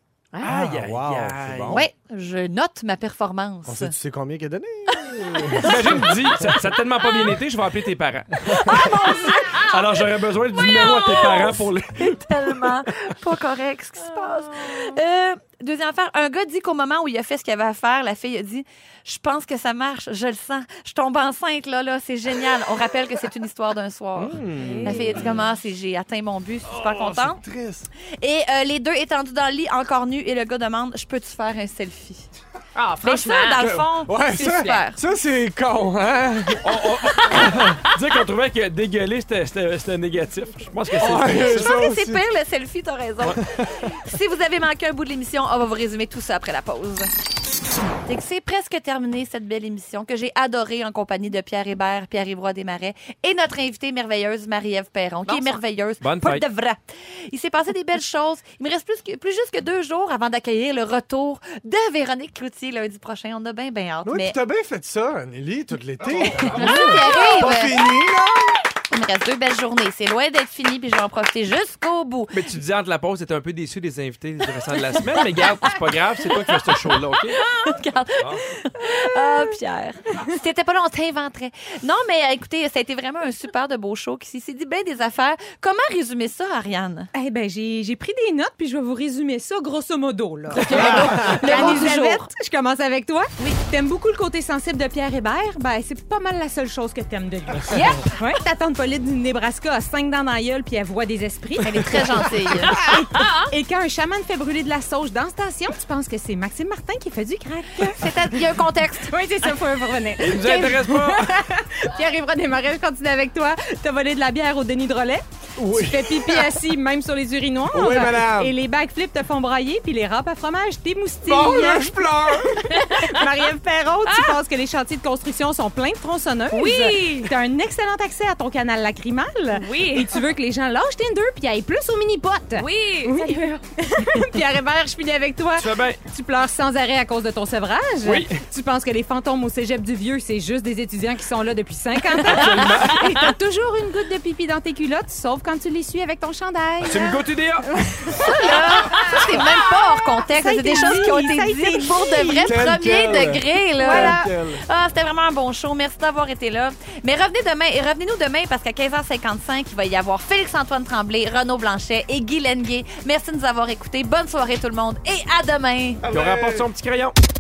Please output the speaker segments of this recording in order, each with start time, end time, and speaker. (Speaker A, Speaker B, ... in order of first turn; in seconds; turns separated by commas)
Speaker A: 0.3-0.6, Speaker B: 0.4-1.8, Speaker C: 0.4-1.8, Speaker D: 1.7-3.9, Speaker B: 3.6-5.9, Speaker D: 4.9-6.1, Speaker C: 5.6-8.7, Speaker D: 8.5-27.4, Speaker A: 9.2-9.6, Speaker C: 9.6-12.7, Speaker A: 14.0-15.0, Speaker C: 24.1-25.3, Speaker A: 24.6-25.2, Speaker B: 26.7-27.9, Speaker D: 28.2-32.2, Speaker A: 32.7-33.7, Speaker D: 33.0-35.0, Speaker B: 33.6-37.6, Speaker A: 34.3-34.8, Speaker C: 36.6-41.7, Speaker A: 37.3-37.6, Speaker B: 41.0-42.2, Speaker D: 41.3-47.1, Speaker B: 43.3-43.9, Speaker D: 48.0-64.3, Speaker A: 55.2-55.6, Speaker C: 56.0-56.4, Speaker B: 64.0-68.6, Speaker C: 66.3-66.6, Speaker D: 66.4-67.8, Speaker D: 68.9-72.4, Speaker C: 72.3-77.4, Speaker D: 74.9-87.1, Speaker C: 78.2-78.5, Speaker E: 87.1-102.2, Speaker D: 90.5-92.3, Speaker A: 90.7-91.3, Speaker B: 90.7-91.3, Speaker D: 97.7-98.2, Speaker D: 101.6-102.9, Speaker E: 102.7-108.1, Speaker A: 103.1-103.5, Speaker D: 107.8-109.5, Speaker E: 109.0-121.9, Speaker C: 110.2-111.4, Speaker B: 115.6-116.5, Speaker B: 117.7-118.5, Speaker B: 121.2-122.7, Speaker E: 122.7-152.6, Speaker A: 122.7-123.2, Speaker A: 124.1-124.3, Speaker A: 126.5-127.3, Speaker A: 129.5-130.2, Speaker A: 132.6-133.6, Speaker C: 135.6-136.0, Speaker C: 138.0-138.4, Speaker C: 142.2-143.2, Speaker C: 146.8-148.2, Speaker D: 148.2-166.0, Speaker B: 152.4-154.6, Speaker E: 153.8-154.2, Speaker B: 166.1-166.6, Speaker C: 166.1-167.1